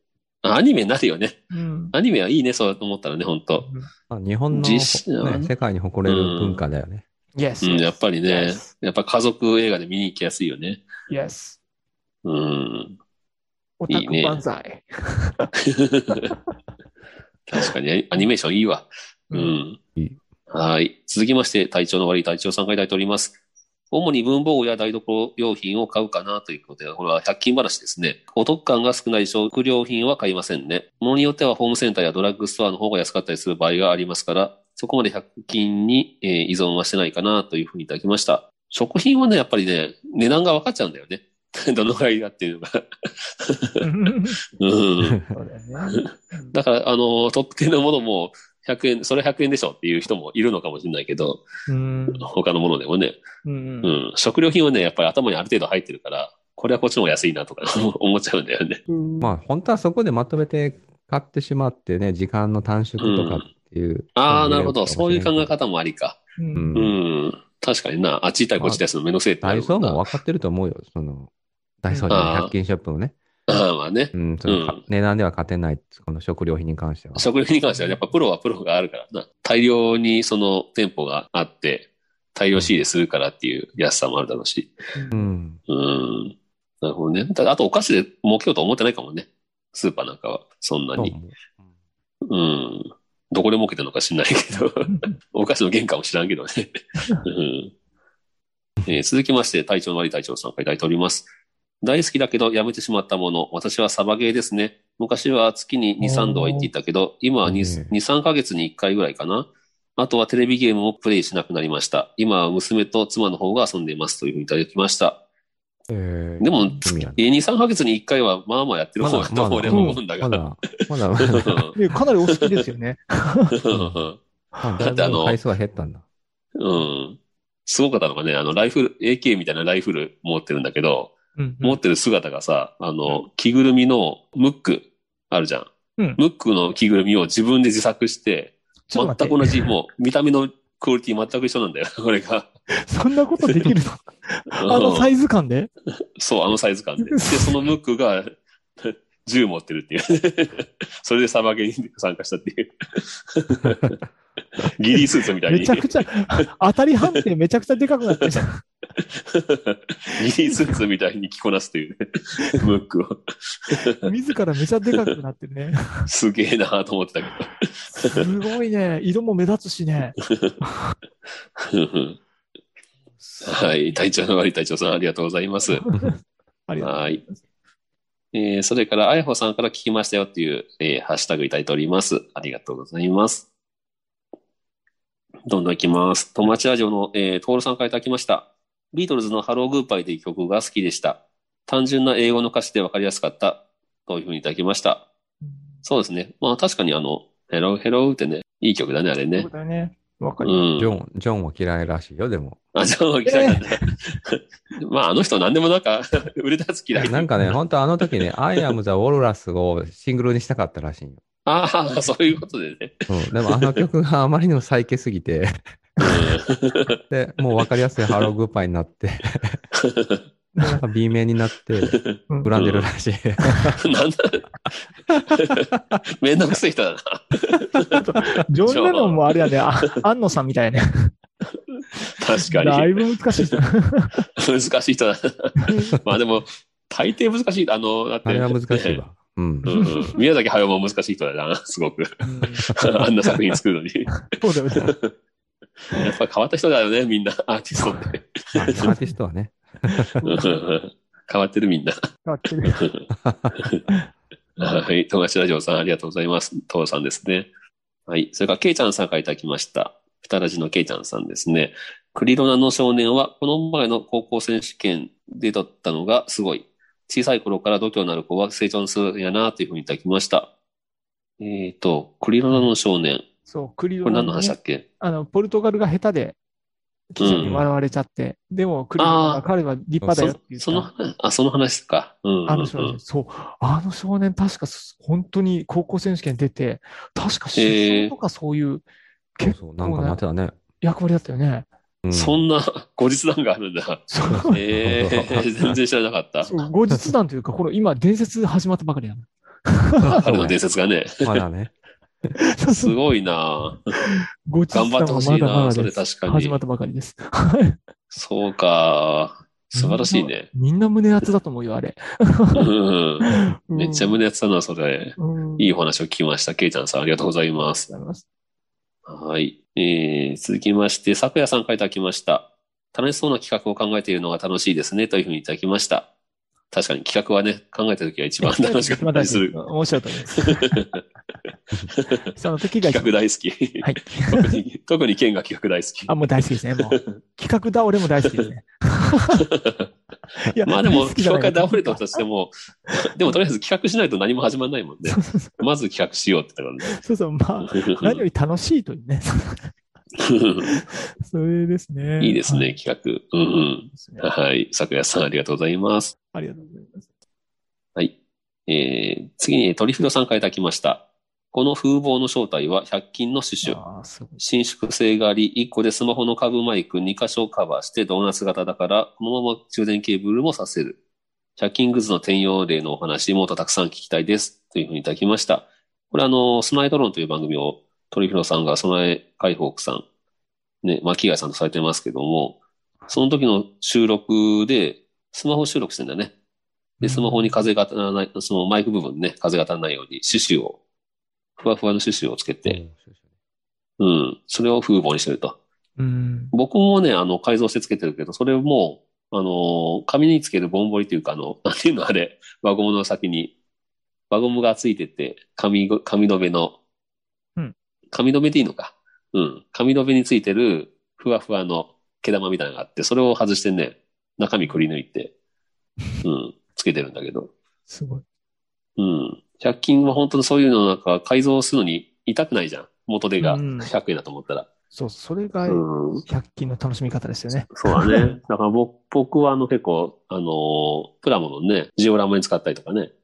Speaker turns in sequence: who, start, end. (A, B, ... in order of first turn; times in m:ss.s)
0:00.4-0:01.4 A
0:01.5-0:01.9 B
0:01.9-0:03.6 A
0:03.6-0:03.9 B
0:04.1-0:07.0 C
0:04.5-0:05.5 A
0:06.0-0:06.6 A
0:07.4-0:08.7 B
0:07.6-0:10.8 A
0:11.1-0:11.6 B
0:12.2-0:13.0 A
0:13.8-0:15.5 B
0:13.9-0:14.4 A
0:15.6-0:16.3 A
0:17.5-0:19.8 A
0:19.3-0:19.6 B
0:20.5-0:23.4 A
0:23.9-0:43.8 A
0:43.8-0:44.4 B
0:44.5-0:45.2 A
0:45.0-0:45.3 C
0:45.3-0:46.5 B
0:45.9-0:51.4 A
0:51.7-0:52.3 B
0:52.2-0:53.2 A
0:53.4-0:53.9 B
0:53.8-0:58.8 A
0:58.9-0:59.3 B
0:59.2-1:05.5 C
1:03.0-1:03.5 A
1:04.2-1:06.2 A
1:06.4-1:06.8 B
1:06.5-1:06.9 C
1:06.7-1:10.0 A
1:09.4-1:11.3 C
1:11.8-1:13.2 C
1:12.1-1:12.5 A
1:13.5-1:14.8 A
1:14.1-1:17.3 C
1:17.2-1:24.7 A
1:17.7-1:18.0 B
1:24.9-1:25.3 B
1:25.1-1:25.6 C
1:25.7-1:31.1 A
1:31.0-1:31.4 C
1:32.2-1:37.7 A
1:34.8-1:35.1 B
1:38.8-1:41.3 A
1:41.8-1:55.2 A
1:46.0-1:46.7 B
1:47.4-1:47.9 C
1:55.9-1:57.2 C
1:56.4-2:00.6 A
1:59.0-2:01.7 C
1:59.6-2:00.0 B
2:01.2-2:01.7 A
2:01.7-2:03.5 B
2:03.6-2:04.2 A
2:03.7-2:04.0 C
2:04.5-2:05.1 B
2:04.6-2:06.0 C
2:04.8-2:05.4 A
2:06.6-2:22.5 A
2:11.4-2:11.8 B
2:18.9-2:19.7 B
2:22.7-2:25.7 B
2:24.5-2:25.1 A
2:26.2-2:34.0 A
2:27.0-2:27.5 B
2:34.6-2:36.0 A
2:35.0-2:38.6 B
2:39.1-2:44.1 A
2:40.4-2:40.8 B
2:42.4-2:42.7 B
2:44.0-2:46.1 B
2:46.1-2:48.3 A
2:47.9-2:50.9 B
2:51.6-2:52.2 A
2:53.2-2:53.7 B
2:53.4-2:55.9 A
2:55.7-2:57.4 B
2:56.8-2:57.2 A
2:58.3-3:03.4 A
3:05.4-3:15.0 A
3:15.4-3:15.8 B
3:15.8-3:19.5 A
3:19.4-3:20.6 B
3:20.4-3:20.9 A
3:20.8-3:22.6 C
3:22.7-3:27.3 A
3:23.2-3:23.9 B
3:27.0-3:31.2 C
3:31.4-3:33.8 A
3:33.1-3:35.6 C
3:36.0-3:36.9 A
3:37.1-3:39.6 C
3:39.7-3:40.2 A
3:40.6-3:40.8 B
3:40.6-3:43.8 C
3:41.8-3:42.9 A
3:43.5-3:43.7 B
3:43.8-3:44.4 A
3:45.1-3:45.4 C
3:45.3-3:45.7 A
3:46.2-3:48.0 A
3:47.9-3:51.1 B
3:48.6-3:49.2 A
3:51.7-3:53.6 A
3:52.4-3:54.2 B
3:54.4-3:59.0 A
3:55.6-3:56.0 B
3:58.2-3:59.9 C
3:59.6-4:05.1 A
3:59.7-4:00.1 B
4:02.2-4:02.7 B
4:04.3-4:04.9 B
4:05.9-4:08.9 A
4:07.8-4:08.0 B
4:08.6-4:10.2 C
4:08.8-4:09.1 B
4:09.9-4:10.6 B
4:10.2-4:12.0 A
4:12.2-4:12.9 B
4:12.6-4:13.0 A
4:13.2-4:13.5 C
4:14.6-4:17.5 A
4:18.1-4:30.5 A
4:31.4-4:33.2 A
4:33.4-4:36.4 B
4:34.0-4:34.8 A
4:37.1-4:40.9 B
4:37.2-4:37.6 A
4:39.0-4:39.4 A
4:40.2-4:43.0 A
4:42.5-4:48.8 B
4:47.5-4:48.1 A
4:49.4-4:50.2 B
4:49.4-4:50.6 C
4:50.8-4:51.7 B
4:52.0-4:52.4 C
4:52.1-4:56.6 A
4:54.1-4:54.6 B
4:54.3-4:55.8 C
4:56.4-5:00.2 B
5:00.0-5:00.6 C
5:00.1-5:01.4 A
5:01.2-5:01.7 C
5:02.4-5:03.0 B
5:02.7-5:04.0 A
5:04.0-5:07.8 B
5:04.7-5:06.6 A
5:08.1-5:10.5 A
5:09.7-5:12.7 B
5:12.5-5:17.8 A
5:13.2-5:14.2 B
5:15.2-5:15.7 B
5:17.6-5:18.2 B
5:19.1-5:26.1 A
5:26.7-5:29.7 A
5:28.4-5:30.8 B
5:30.3-5:31.0 A
5:32.0-5:32.2 A
5:32.3-5:33.1 B
5:32.8-5:36.1 A
5:33.8-5:34.6 B
5:36.1-5:39.4 B
5:36.9-5:37.2 A
5:39.4-5:39.9 A
5:40.4-5:42.2 B
5:40.6-5:46.9 A
5:45.1-5:45.6 B
5:46.8-5:49.7 B
5:47.7-5:48.2 A
5:50.2-5:50.7 A
5:50.6-5:52.7 B
5:52.2-5:56.1 A
5:53.9-5:54.3 B
5:56.3-5:57.1 B
5:58.7-6:01.0 A
6:01.5-6:03.8 A
6:03.6-6:04.4 B
6:04.4-6:11.0 A
6:11.6-6:20.0 A
6:20.8-6:22.6 A
6:23.1-6:26.3 A
6:27.0-6:27.6 B
6:27.0-6:30.8 A
6:31.6-6:32.8 A
6:32.6-6:33.1 C
6:34.0-6:35.6 A
6:36.0-6:36.5 B
6:36.5-6:43.5 A
6:44.3-6:46.8 A
6:48.1-6:55.3 A
6:56.2-6:57.5 A
6:57.9-6:58.2 B
6:59.0-7:04.7 A
7:03.4-7:03.9 B
7:04.9-7:08.3 B
7:05.7-7:06.2 A
7:07.7-7:13.1 A